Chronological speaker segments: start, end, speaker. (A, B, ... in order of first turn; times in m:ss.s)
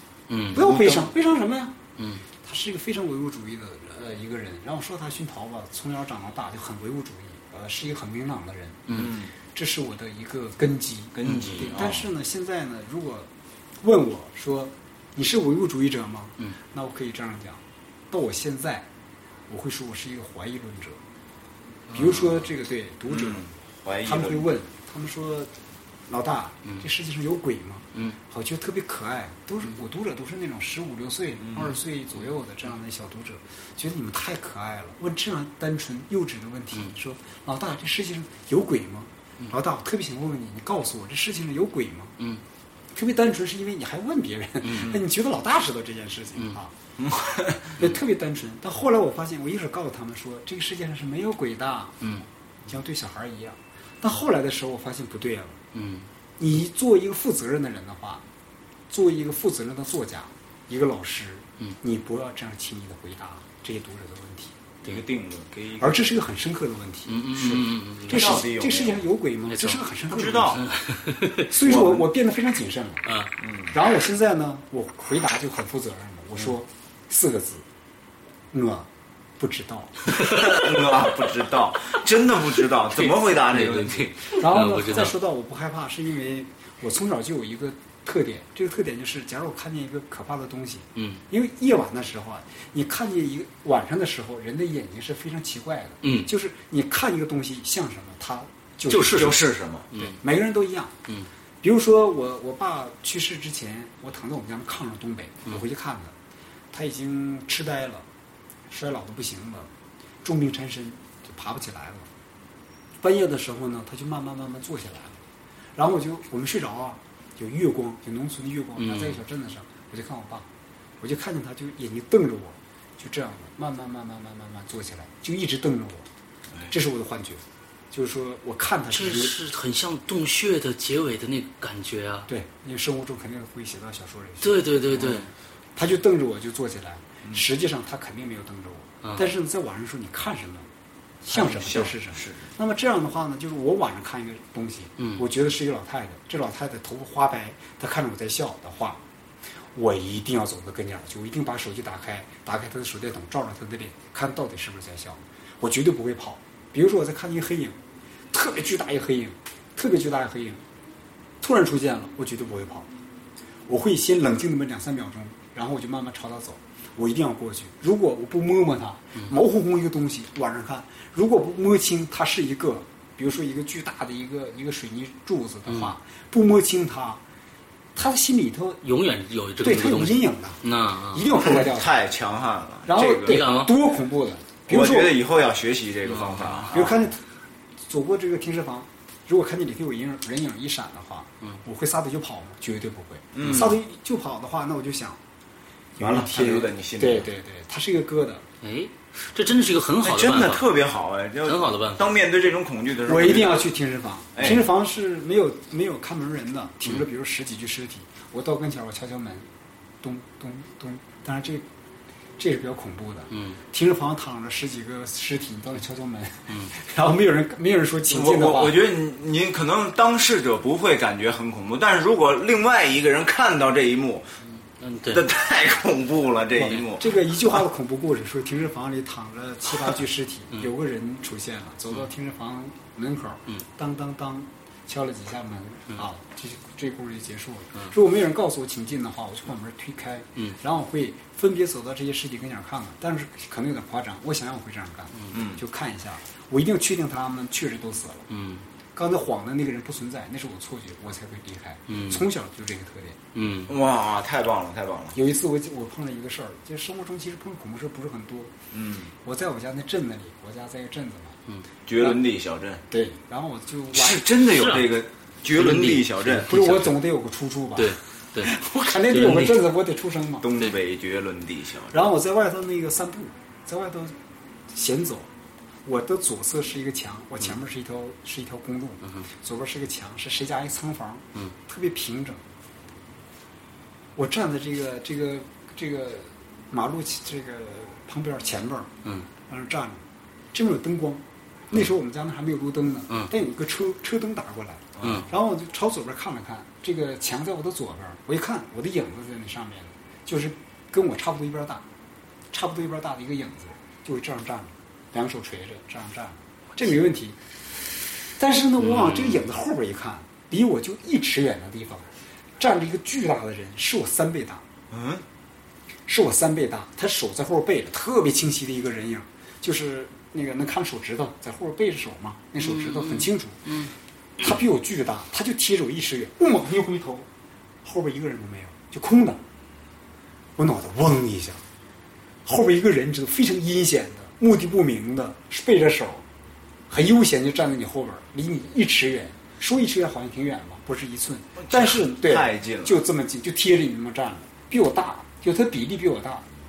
0:00.3-0:00.9 A
0:00.5-0:01.8 B
0:02.0-0:02.2 A
0:02.4-0:18.9 B
0:08.9-0:09.3 C
0:11.2-0:12.1 C
0:19.5-0:21.0 B
0:21.9-0:22.2 A
0:21.9-0:23.4 B
0:23.1-0:24.5 C
0:24.0-0:25.5 B
0:26.1-0:42.2 B
0:31.4-0:31.8 C
0:42.9-0:46.7 B
0:47.0-0:47.7 C
0:47.8-0:52.1 B
0:52.6-0:55.6 B
0:55.7-0:56.1 A
0:56.4-0:58.2 B
0:58.9-1:04.6 B
1:04.8-1:06.1 C
1:05.8-1:10.6 B
1:07.1-1:08.4 A
1:07.6-1:09.1 C
1:09.5-1:09.8 A
1:10.1-1:10.6 C
1:10.6-1:11.5 A
1:11.5-1:13.0 B
1:11.6-1:12.1 C
1:13.1-1:13.3 A
1:13.4-1:13.8 C
1:13.7-1:17.6 B
1:18.5-1:19.9 B
1:20.1-1:20.7 A
1:20.2-1:24.2 C
1:22.9-1:25.2 A
1:24.3-1:40.9 B
1:31.0-1:31.2 A
1:36.0-1:36.3 A
1:38.9-1:39.9 C
1:39.0-1:39.3 A
1:39.9-1:40.2 A
1:41.6-1:46.1 B
1:46.7-1:48.1 B
1:48.7-1:49.7 B
1:50.2-1:52.1 B
1:53.0-1:55.2 B
1:55.8-2:00.5 B
1:58.8-1:59.2 A
2:01.0-2:06.1 B
2:06.7-2:09.4 B
2:08.9-2:12.3 A
2:12.3-2:15.2 B
2:14.4-2:15.3 A
2:15.8-2:20.7 B
2:21.2-2:29.0 B
2:21.3-2:22.5 C
2:25.0-2:25.2 A
2:29.7-2:37.8 B
2:38.3-2:40.6 B
2:41.4-2:42.9 B
2:43.7-2:57.2 B
2:55.7-2:55.9 A
2:57.9-2:58.8 B
2:58.8-3:01.3 A
2:59.6-3:02.0 B
3:01.4-3:03.5 C
3:02.8-3:05.2 B
3:03.2-3:03.8 A
3:04.7-3:07.0 C
3:06.1-3:06.8 A
3:06.7-3:07.2 B
3:07.8-3:15.2 B
3:13.3-3:13.8 C
3:16.0-3:18.4 B
3:16.0-3:17.3 C
3:18.6-3:20.7 A
3:20.0-3:23.7 C
3:21.4-3:22.1 A
3:23.1-3:29.5 B
3:24.4-3:24.6 C
3:30.0-3:31.7 B
3:32.4-3:38.8 B
3:33.3-3:33.6 A
3:38.1-3:44.3 C
3:44.8-3:45.2 A
3:45.1-3:47.2 C
3:46.6-4:08.3 B
4:05.3-4:05.6 C
4:08.3-4:08.6 A
4:08.9-4:13.2 B
4:11.9-4:12.3 A
4:13.4-4:13.8 A
4:13.7-4:15.2 C
4:15.1-4:18.6 B
4:18.7-4:19.1 C
4:19.2-4:21.4 B
4:21.9-4:22.8 C
4:22.9-4:24.2 B
4:23.9-4:26.6 C
4:24.5-4:24.9 A
4:25.5-4:26.9 A
4:26.4-4:28.0 B
4:27.8-4:28.6 A
4:28.5-4:30.7 B
4:29.1-4:29.6 A
4:30.4-4:32.0 C
4:31.9-4:34.2 B
4:34.7-4:35.3 B
4:35.8-4:42.4 B
4:44.2-4:48.9 B
4:49.4-5:01.8 B
4:55.0-4:55.3 C
4:55.0-4:55.3 A
5:02.5-5:07.4 B
5:08.4-5:14.6 B
5:08.8-5:09.4 A
5:14.9-5:15.2 C
5:16.1-5:23.7 B
5:22.6-5:24.6 A
5:24.4-5:27.3 B
5:27.8-5:29.4 B
5:30.6-5:31.6 B
5:32.4-5:36.2 B
5:36.9-5:46.4 B
5:41.6-5:43.0 C